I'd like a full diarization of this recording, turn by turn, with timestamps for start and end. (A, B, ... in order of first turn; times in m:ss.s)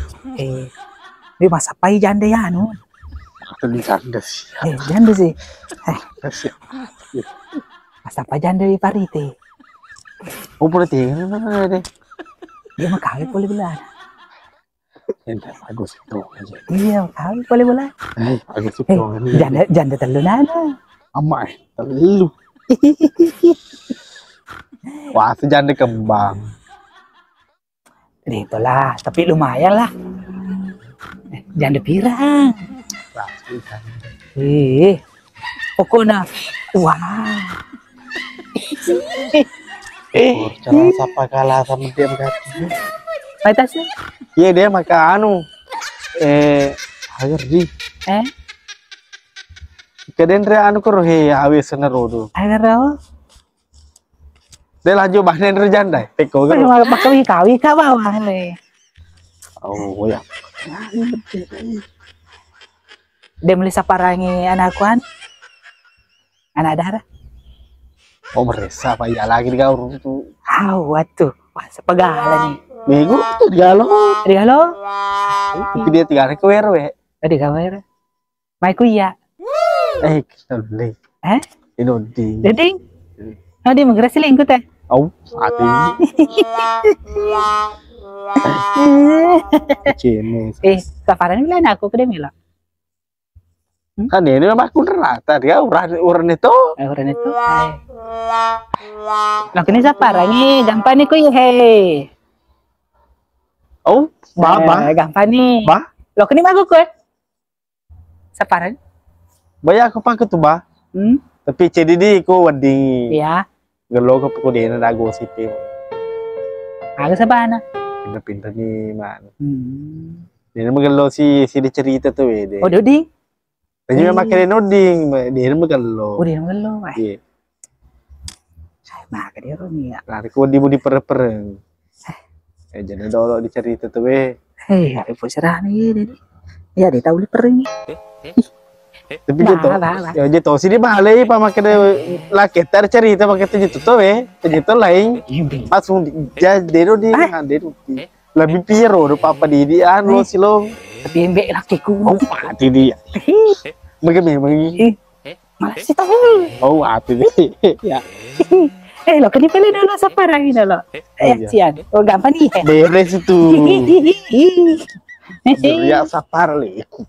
0:00.3-0:00.7 A
0:01.4-0:02.8 A
0:03.5-0:04.9 B
0:04.6-0:06.0 A
0:06.2-0:07.4 B
0:08.0-0:09.3 A
0:10.6-0:11.8 B
0:12.8-0:13.9 A
0:15.2-0:16.7 B
0:16.7-0:17.9 A
0:18.2-0:19.6 B
0:18.9-0:20.7 A
0:21.2-0:22.3 B
0:22.7-0:23.6 A
0:25.1-0:26.4 B
0:28.3-0:29.9 A
0:31.3-0:32.7 A
0:33.1-0:34.1 B
0:34.4-0:35.0 A
0:35.8-0:37.6 A
0:38.6-0:39.5 A
0:40.1-0:41.0 A
0:40.2-0:42.7 B
0:43.4-0:43.9 A
0:44.4-0:45.4 B
0:46.2-0:47.7 B
0:50.1-0:52.3 B
0:52.4-0:52.9 A
0:54.8-0:56.8 B
0:56.5-0:58.5 A
0:59.6-1:01.8 B
1:03.5-1:05.0 A
1:06.6-1:07.0 A
1:08.4-1:10.2 B
1:10.6-1:12.6 A
1:12.9-1:14.2 B
1:14.2-1:14.7 A
1:15.4-1:15.9 A
1:15.7-1:16.9 B
1:17.2-1:17.8 A
1:18.6-1:19.1 A
1:20.0-1:20.9 B
1:21.8-1:22.5 B
1:22.4-1:22.8 A
1:23.6-1:24.6 A
1:24.9-1:26.0 B
1:26.0-1:27.5 A
1:28.4-1:29.9 A
1:29.9-1:30.6 B
1:30.6-1:32.3 A
1:34.1-1:36.6 B
1:36.8-1:37.8 A
1:39.5-1:42.1 A
1:43.9-1:45.0 B
1:44.4-1:46.9 A
1:48.4-1:48.8 A
1:49.6-1:50.6 B
1:50.9-1:51.2 A
1:51.4-1:53.1 B
1:53.1-1:53.4 A
1:53.9-1:55.6 B
1:57.0-1:57.6 A
1:58.0-1:59.3 B
1:59.4-2:00.2 A
2:00.6-2:02.7 B
2:02.6-2:03.1 A
2:03.9-2:06.2 B
2:04.0-2:04.4 A
2:06.2-2:07.0 A
2:08.9-2:10.0 A
2:10.1-2:11.6 B
2:12.7-2:14.4 B
2:14.7-2:16.2 A
2:16.8-2:17.7 A
2:19.3-2:30.7 B
2:19.4-2:20.2 A
2:25.3-2:25.7 A
2:31.0-2:32.3 A
2:32.0-2:33.0 B
2:33.1-2:33.6 A
2:34.0-2:34.8 B
2:35.6-2:36.5 A
2:36.6-2:38.0 B
2:38.4-2:42.6 A
2:41.2-2:41.6 B
2:42.6-2:44.0 B
2:43.4-2:44.9 A
2:45.4-2:46.1 A
2:45.5-2:46.9 B